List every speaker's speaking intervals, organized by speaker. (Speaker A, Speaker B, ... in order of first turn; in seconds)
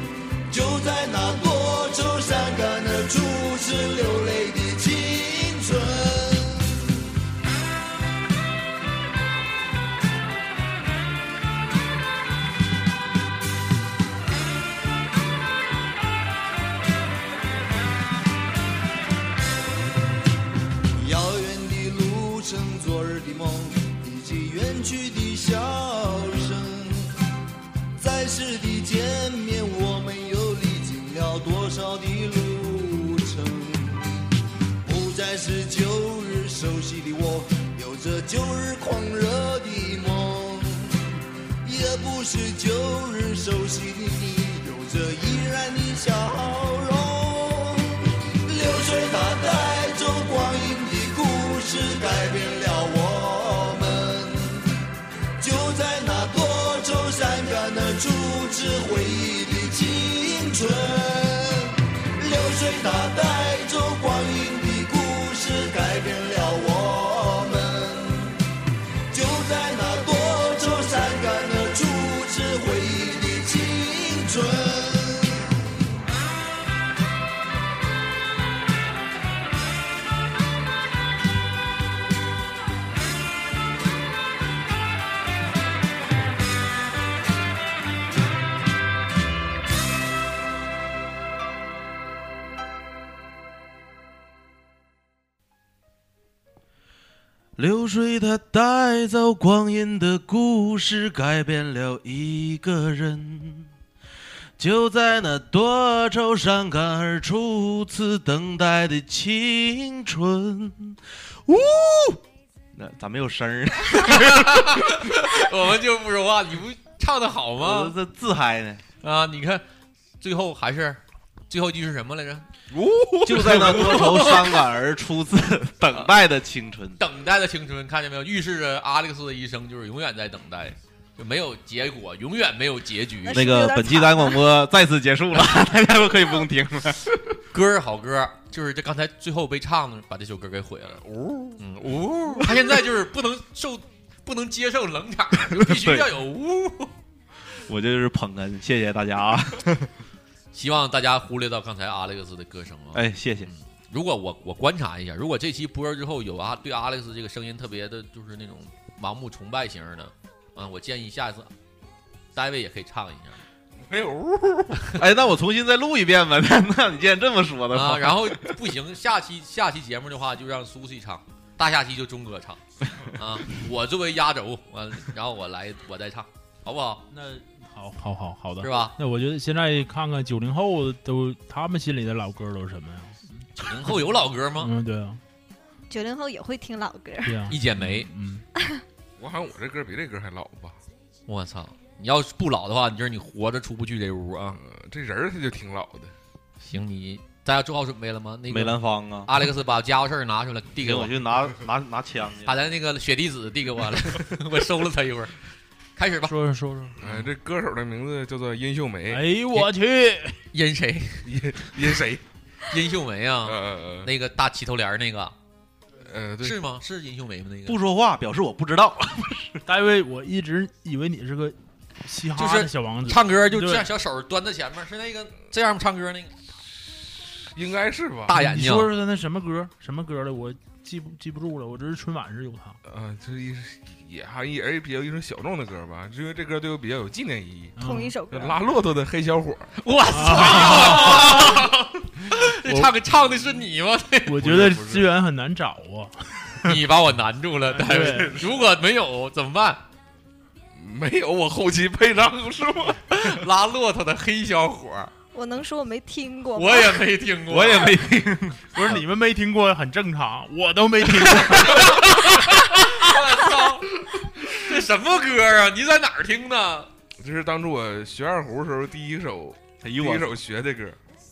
Speaker A: 0.5-6.8, 20.9-27.1, 27.9-34.3, 34.8-41.1, 41.6-54.8, 55.4-68.4, 69.1-75.5
Speaker B: 97.6-103.7, 104.6-112.2, 112.8-115.4, 117.6-118.8, 123.2-127.0, 133.3-137.0, 145.5-146.1, 147.7-149.9, 152.9-153.5, 165.0-168.4, 198.5-199.3, 200.8-202.5, 217.7-219.6, 257.5-258.9, 269.8-270.4
Speaker C: 114.0-117.9, 119.0-119.6, 120.2-121.0, 121.5-122.5, 123.3-124.6, 127.0-133.4, 137.5-141.0, 141.6-146.9, 150.5-161.5, 162.3-163.4, 167.7-172.6, 173.2-177.1, 178.6-178.9, 183.6-184.7, 187.5-188.1, 191.3-194.6, 196.6-201.1, 202.4-205.3, 205.9-206.3, 210.5-211.3, 212.7-215.3, 216.4-217.8, 222.4-226.3, 228.3-228.9, 239.8-244.8, 246.6-249.8, 253.1-255.1, 256.5-258.0, 261.1-266.9
Speaker D: 122.7-123.7, 140.9-141.6, 163.8-164.9, 189.2-190.8, 194.6-196.1, 207.0-209.3, 211.2-212.2, 213.4-214.1, 216.1-216.6, 227.6-228.3, 232.8-237.8, 238.3-239.7, 250.8-253.4, 267.2-271.0
Speaker E: 133.2-134.4, 185.9-187.4, 237.8-238.6, 255.3-257.0
Speaker F: 177.1-183.5, 184.6-185.2, 187.2-188.4, 206.3-207.2, 209.1-210.4, 219.7-223.9, 228.3-232.8, 237.8-238.1, 240.1-241.7, 242.6-242.9, 244.2-246.8, 247.7-248.5, 258.7-262.5